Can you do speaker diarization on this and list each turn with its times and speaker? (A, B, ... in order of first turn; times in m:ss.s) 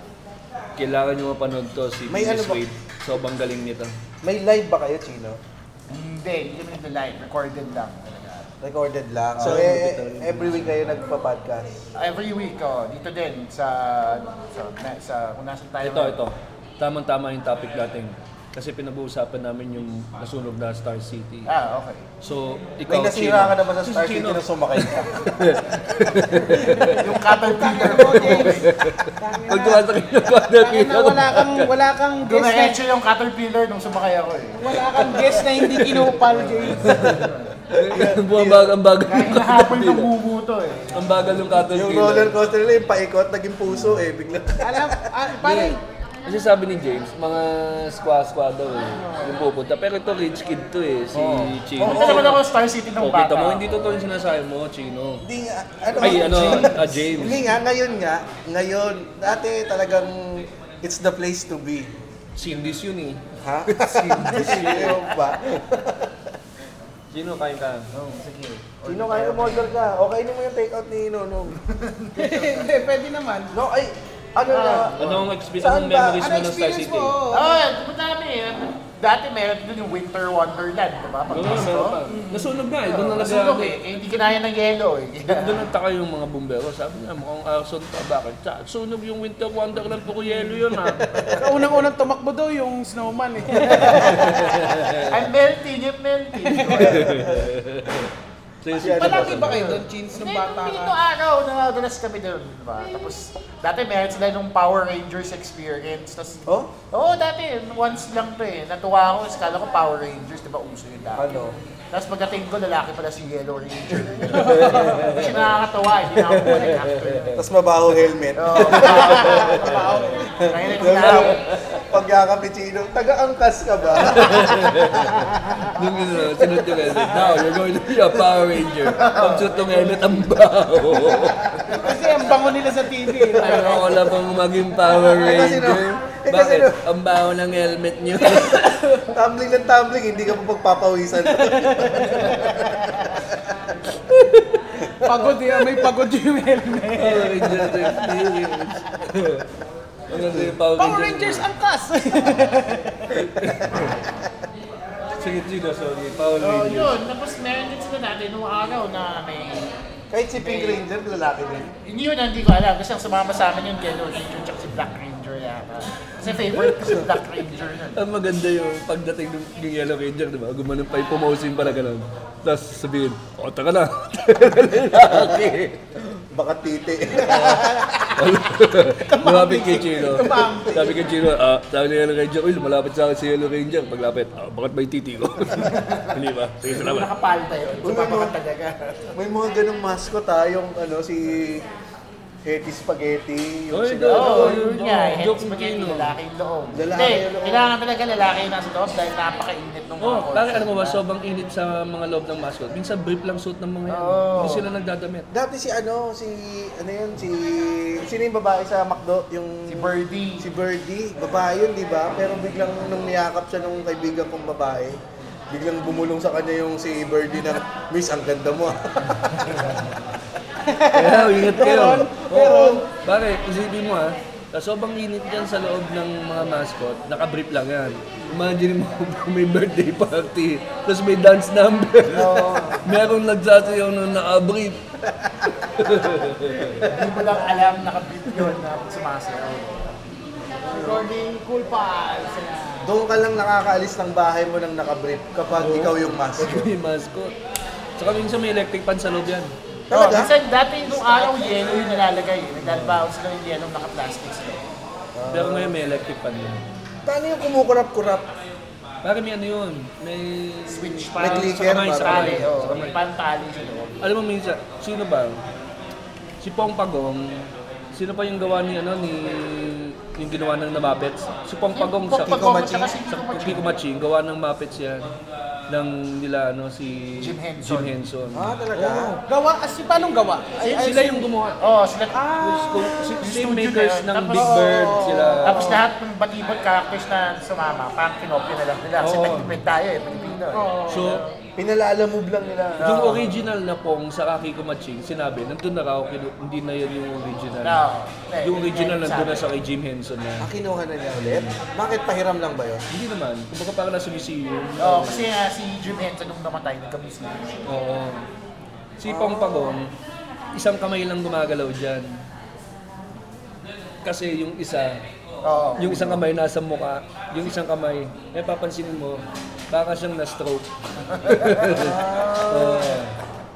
0:00.8-0:03.9 A
0:02.1-0:02.6 B
0:04.2-0:05.4 B
0:05.9-0:08.5 C
0:08.6-0:11.8 B
0:09.4-0:10.7 A
0:12.0-0:16.3 C
0:15.8-0:21.5 A
0:21.5-0:22.0 C
0:22.2-0:27.1 A
0:22.9-0:25.2 B
0:26.6-0:32.8 D
0:26.9-0:28.7 C
0:27.7-0:31.7 A
0:32.2-0:35.5 C
0:34.6-0:37.0 D
0:36.0-0:40.1 A
0:36.8-0:37.6 C
0:37.7-0:38.8 B
0:39.1-0:41.5 C
0:40.9-0:42.4 A
0:41.5-0:45.0 B
0:44.6-0:45.8 D
0:45.4-0:55.2 A
0:49.0-0:49.4 D
0:51.1-0:52.3 B
0:51.8-0:54.0 C
0:55.2-1:01.9 B
0:56.0-0:57.0 C
0:56.0-0:57.4 A
1:02.4-1:05.0 A
1:03.4-1:06.4 B
1:04.2-1:04.9 C
1:07.1-1:07.9 A
1:07.9-1:09.7 C
1:08.8-1:11.6 B
1:11.5-1:12.7 C
1:12.2-1:13.5 D
1:13.5-1:16.3 B
1:14.5-1:15.2 C
1:15.0-1:17.2 A
1:16.2-1:17.6 D
1:17.3-1:25.7 C
1:21.3-1:23.8 A
1:25.2-1:31.3 A
1:31.0-1:31.5 C
1:31.3-1:34.6 D
1:33.7-1:37.5 C
1:34.0-1:35.3 A
1:36.6-1:38.1 A
1:36.8-1:37.5 B
1:38.6-1:39.7 A
1:38.7-1:39.7 B
1:38.9-1:41.0 D
1:39.4-1:51.3 C
1:46.5-1:46.7 B
1:51.2-1:51.6 B
1:51.9-1:57.4 C
1:53.9-1:57.5 A
1:54.3-1:55.2 D
1:57.4-1:59.4 B
1:58.4-2:01.4 C
1:58.5-2:00.1 A
1:59.0-2:00.6 D
2:00.4-2:05.2 B
2:00.8-2:01.9 A
2:04.2-2:11.7 A
2:05.3-2:05.8 C
2:09.0-2:10.1 B
2:11.6-2:14.1 D
2:13.1-2:13.9 B
2:13.4-2:19.1 A
2:14.9-2:16.8 B
2:19.1-2:23.4 B
2:21.3-2:22.6 D
2:24.1-2:24.8 A
2:25.0-2:28.2 D
2:27.0-2:29.5 A
2:30.1-2:31.4 A
2:30.1-2:30.6 B
2:30.8-2:33.1 D
2:33.2-2:34.0 A
2:35.2-2:37.0 A
2:36.4-2:39.7 C
2:40.1-2:41.7 B
2:40.4-2:40.8 C
2:41.8-2:48.0 C
2:46.2-2:47.2 A
2:48.0-2:56.0 A
2:55.1-2:55.4 B
2:56.2-2:57.9 B
2:57.1-2:57.9 D
2:58.2-3:07.1 A
2:59.1-3:01.0 D
3:05.5-3:09.1 C
3:07.8-3:08.3 B
3:09.1-3:11.7 B
3:12.4-3:14.6 B
3:13.7-3:16.2 A
3:14.1-3:21.0 C
3:16.7-3:17.7 B
3:20.0-3:25.3 A
3:23.9-3:24.7 C
3:25.3-3:35.0 B
3:29.7-3:30.5 C
3:35.5-3:39.9 B
3:40.6-3:42.8 D
3:40.9-3:54.8 A
3:41.8-3:42.7 B
3:52.1-3:52.9 C
3:55.4-3:55.7 B
3:55.8-3:56.9 A
3:56.9-3:59.9 C
4:00.6-4:01.0 B
4:00.7-4:02.9 D
4:02.8-4:06.7 B
4:05.6-4:07.3 A
4:08.0-4:09.5 A
4:09.9-4:10.4 B
4:09.9-4:14.7 C
4:11.2-4:11.7 D
4:11.2-4:11.7 B
4:12.6-4:13.1 A
4:15.2-4:15.8 B
4:15.3-4:16.6 A
4:17.0-4:18.3 B
4:19.0-4:23.0 A
4:20.7-4:24.1 C
4:21.2-4:22.6 B
4:24.0-4:25.4 A
4:26.4-4:35.1 A
4:31.7-4:33.8 C
4:32.2-4:32.9 B
4:35.7-4:39.2 A
4:37.2-4:38.0 C
4:38.3-4:39.1 B
4:39.3-4:41.3 D
4:40.6-4:41.6 A
4:41.6-4:42.4 C
4:42.1-4:43.2 D
4:42.4-4:45.7 A
4:43.2-4:44.6 C
4:44.3-4:45.8 D
4:45.4-4:51.3 C
4:49.0-4:49.6 A
4:50.2-4:51.2 D
4:50.9-4:51.2 A
4:51.6-4:53.4 B
4:52.8-4:57.8 A
4:57.6-4:59.5 C
4:58.4-5:00.5 A
5:00.4-5:02.9 B
5:01.2-5:01.6 A
5:02.9-5:05.3 A
5:04.8-5:07.7 C
5:07.7-5:08.3 A
5:09.0-5:09.9 A
5:09.1-5:09.8 B
5:10.5-5:12.1 A
5:14.0-5:15.0 A
5:15.4-5:16.2 C
5:15.8-5:23.2 A
5:21.1-5:22.6 C
5:21.7-5:22.9 B